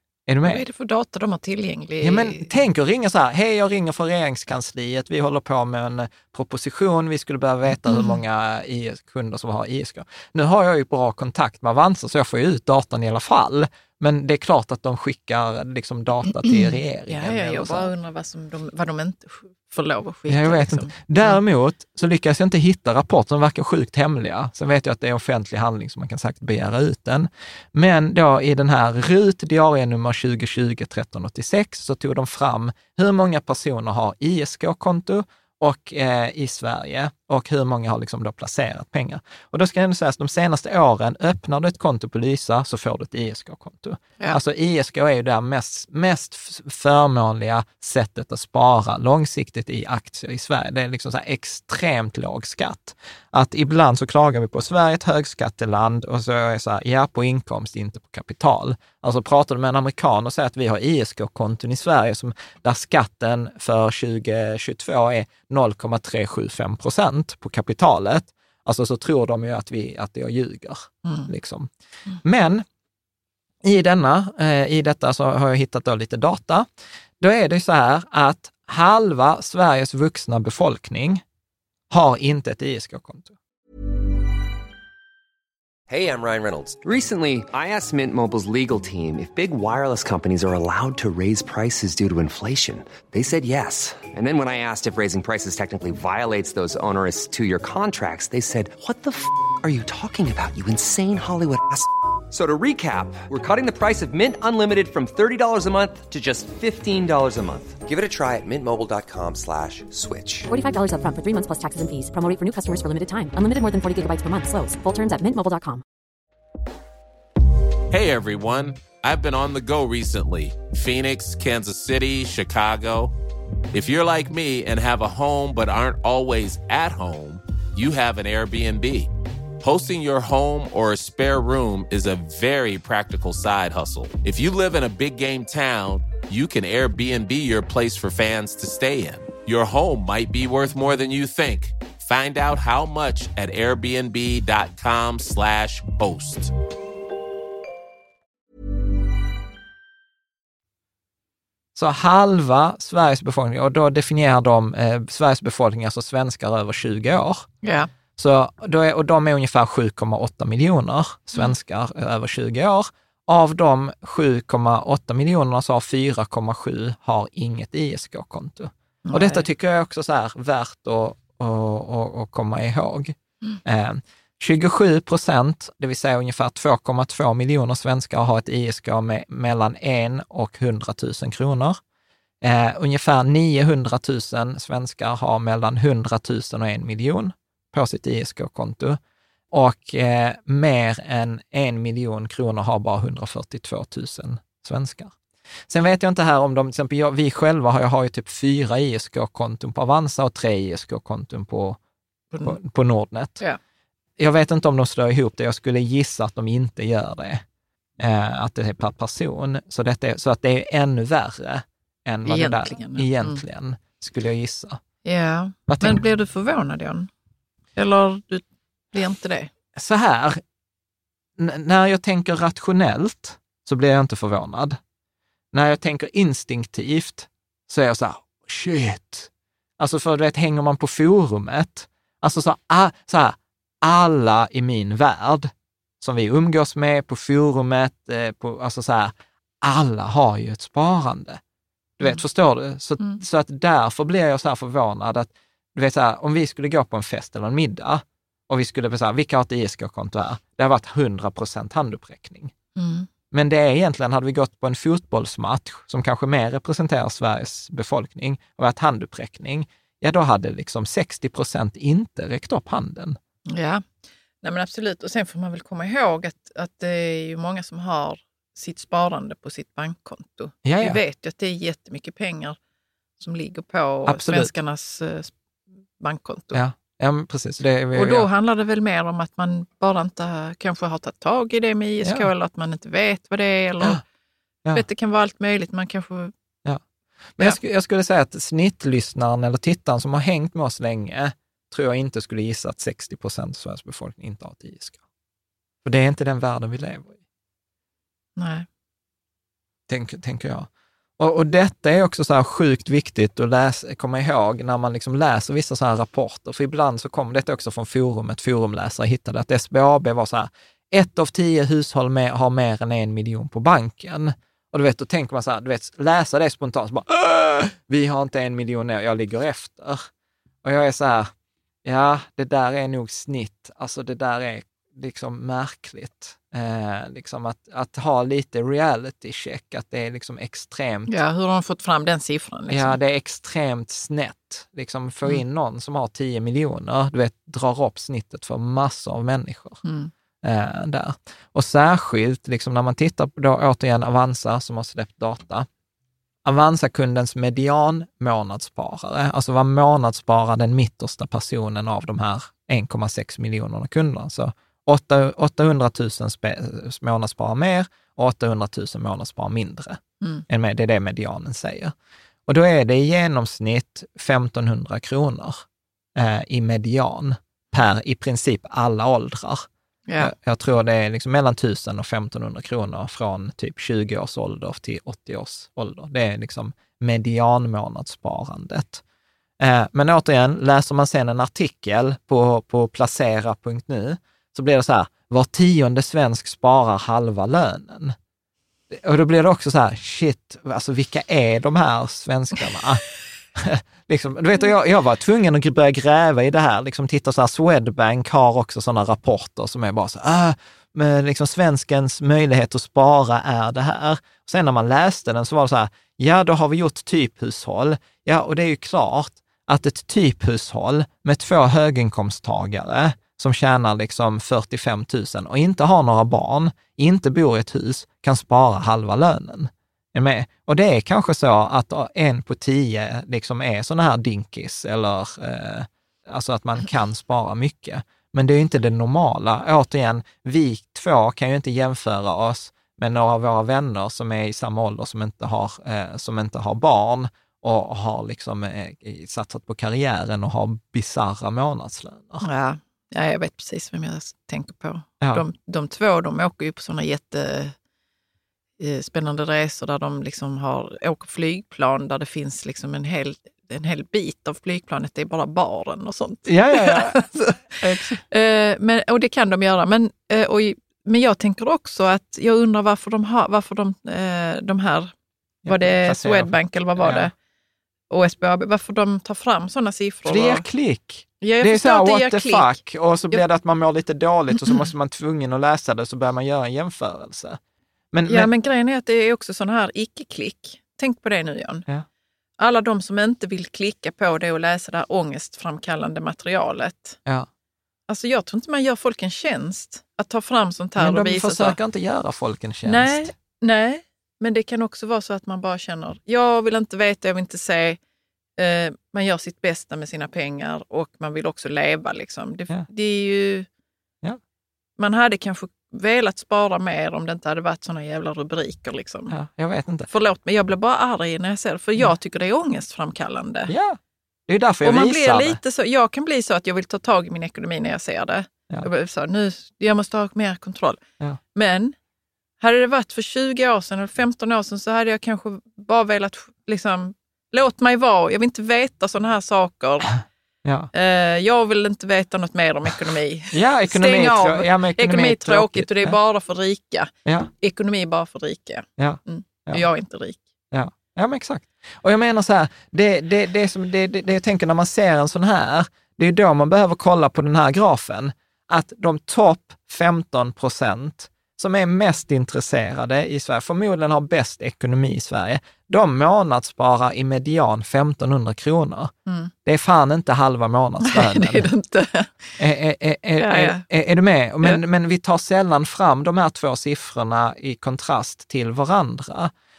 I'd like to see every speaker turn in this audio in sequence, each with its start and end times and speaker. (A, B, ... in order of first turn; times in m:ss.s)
0:00.3-0:00.6 A
0:00.4-0:02.6 B
0:02.0-0:17.9 A
0:07.9-0:08.2 B
0:16.5-0:21.4 B
0:20.3-1:11.7 A
1:11.0-1:11.3 B
1:12.2-1:12.6 A
1:13.6-1:16.7 A
1:17.2-1:21.2 A
1:21.9-1:23.3 A
1:25.9-1:50.5 C
1:50.5-1:55.8 D
1:57.9-2:03.1 E
2:03.7-2:26.5 E
2:31.7-2:37.5 A
2:37.6-2:37.9 B
2:38.2-3:01.8 A
2:49.0-2:49.4 B
3:02.4-3:09.0 A
3:09.5-3:15.1 A
3:15.7-3:21.8 A
3:22.3-3:22.6 B
3:22.4-3:23.4 A
3:24.2-3:27.4 A
3:28.0-3:34.8 A
3:32.2-3:33.4 B
3:35.0-3:37.1 B
3:35.7-3:36.0 A
3:37.8-3:39.5 B
3:39.8-3:40.4 A
3:41.4-3:44.8 A
3:45.5-4:01.4 A
4:02.0-4:12.5 A
4:12.8-4:13.1 B
4:13.3-4:23.2 A
4:23.5-4:23.8 B
4:24.4-4:32.6 B
4:30.6-4:31.0 A
4:33.2-4:35.3 B
4:34.0-4:34.5 A
4:36.0-4:36.6 B
4:36.5-4:38.3 A
4:37.9-4:44.0 B
4:44.7-4:46.3 B
4:47.4-4:55.0 A
4:55.8-4:57.2 A
4:58.4-4:58.6 B
4:59.9-5:20.1 A
5:20.6-5:21.3 A
5:21.8-5:31.1 A
5:31.1-5:33.0 B
5:32.7-5:39.8 A
5:39.8-5:40.1 B
5:40.4-5:45.7 A
5:46.4-6:01.9 A
6:02.5-6:05.6 A
6:06.1-6:09.7 A
6:10.1-6:10.3 B
6:10.2-6:19.0 A
6:19.6-6:28.1 A
6:28.9-7:22.4 A
7:22.4-7:27.7 B
7:28.8-7:37.6 B
7:36.4-7:38.2 A
7:38.3-7:45.1 B
7:45.6-7:47.3 A
7:45.6-7:47.3 B
7:48.1-7:50.6 B
7:50.2-7:57.6 A
7:51.4-7:52.8 B
7:58.1-7:58.5 A
7:58.3-8:01.8 B
8:02.6-8:07.2 B
8:08.1-8:11.8 B
8:11.0-8:13.3 A
8:12.8-8:18.0 B
8:18.6-8:23.7 B
8:25.0-8:29.4 B
8:29.3-8:30.1 A
8:30.1-8:33.7 B
8:33.7-8:35.6 A
8:34.8-8:41.0 B
8:41.5-8:41.9 B
8:42.6-8:50.1 B
8:50.6-8:50.9 A
8:50.9-9:00.4 B
8:53.5-8:56.2 A
8:57.2-8:57.5 A
8:59.0-8:59.8 A
9:00.7-9:19.1 A
9:19.3-9:19.5 B
9:19.6-9:21.7 A
9:21.0-9:22.3 B
9:22.6-9:29.5 A
9:23.4-9:23.8 B